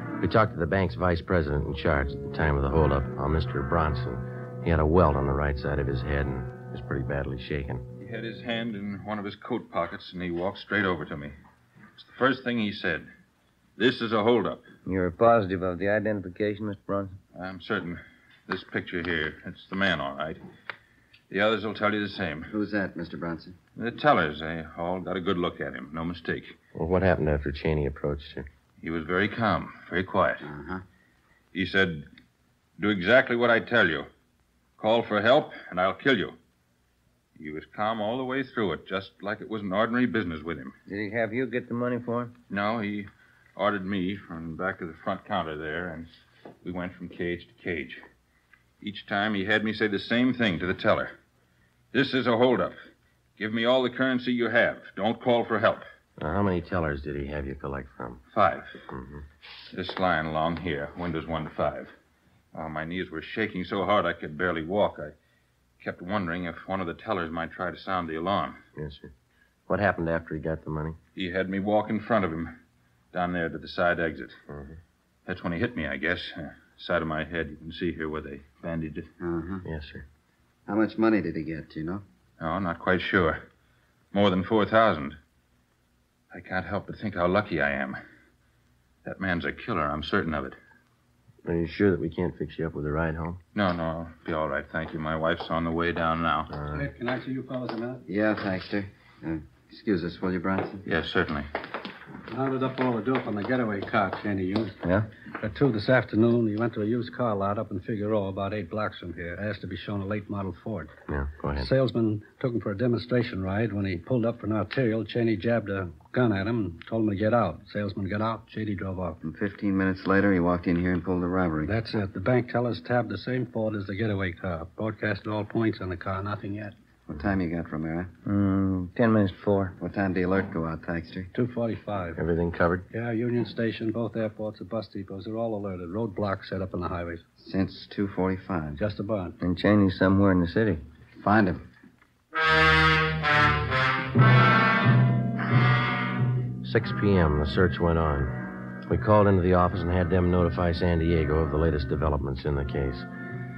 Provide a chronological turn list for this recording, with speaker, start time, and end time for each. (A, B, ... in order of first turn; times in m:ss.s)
0:00.2-0:07.8 A
0:08.0-0:11.4 B
0:12.0-0:13.1 B
0:13.8-0:14.7 B
0:14.8-0:17.2 C
0:17.3-0:20.4 B
0:21.3-0:22.5 B
0:22.5-0:23.6 D
0:23.8-0:26.6 B
0:26.7-0:28.5 A
0:28.8-0:30.5 B
0:30.4-0:30.8 D
0:31.5-0:32.1 B
0:32.8-0:34.1 B
0:34.8-0:36.4 B
0:37.4-0:40.7 B
0:40.9-0:42.3 C
0:42.5-0:46.1 B
0:46.6-0:48.0 B
0:48.8-0:51.1 B
0:51.9-0:55.8 B
0:56.2-0:58.2 A
0:58.3-0:58.8 B
0:58.9-0:59.2 A
0:59.7-1:01.9 B
1:02.5-1:05.1 B
1:05.8-1:08.6 B
1:08.8-1:09.1 A
1:09.7-1:11.0 A
1:11.1-1:12.6 B
1:13.1-1:14.4 B
1:14.5-1:14.8 A
1:15.2-1:19.1 B
1:19.2-1:19.6 D
1:19.6-1:20.0 A
1:20.7-1:22.0 D
1:22.4-1:23.4 B
1:24.1-1:25.2 B
1:26.3-1:28.0 B
1:29.0-1:30.6 B
1:31.4-1:33.4 A
1:33.5-1:36.5 B
1:36.5-1:36.8 A
1:36.7-1:38.0 E
1:38.1-1:40.8 D
1:40.8-1:41.5 B
1:42.3-1:44.8 E
1:45.4-1:50.9 E
1:51.1-1:51.7 A
1:51.6-1:59.2 E
1:59.2-2:01.7 D
2:01.6-2:06.7 E
2:07.1-2:08.1 D
2:08.2-2:09.8 C
2:09.8-2:11.3 D
2:11.3-2:12.2 E
2:12.2-2:12.9 A
2:12.9-2:17.2 E
2:17.4-2:18.8 D
2:18.8-2:19.4 E
2:19.4-2:20.8 C
2:21.2-2:21.6 D
2:26.6-2:33.1 A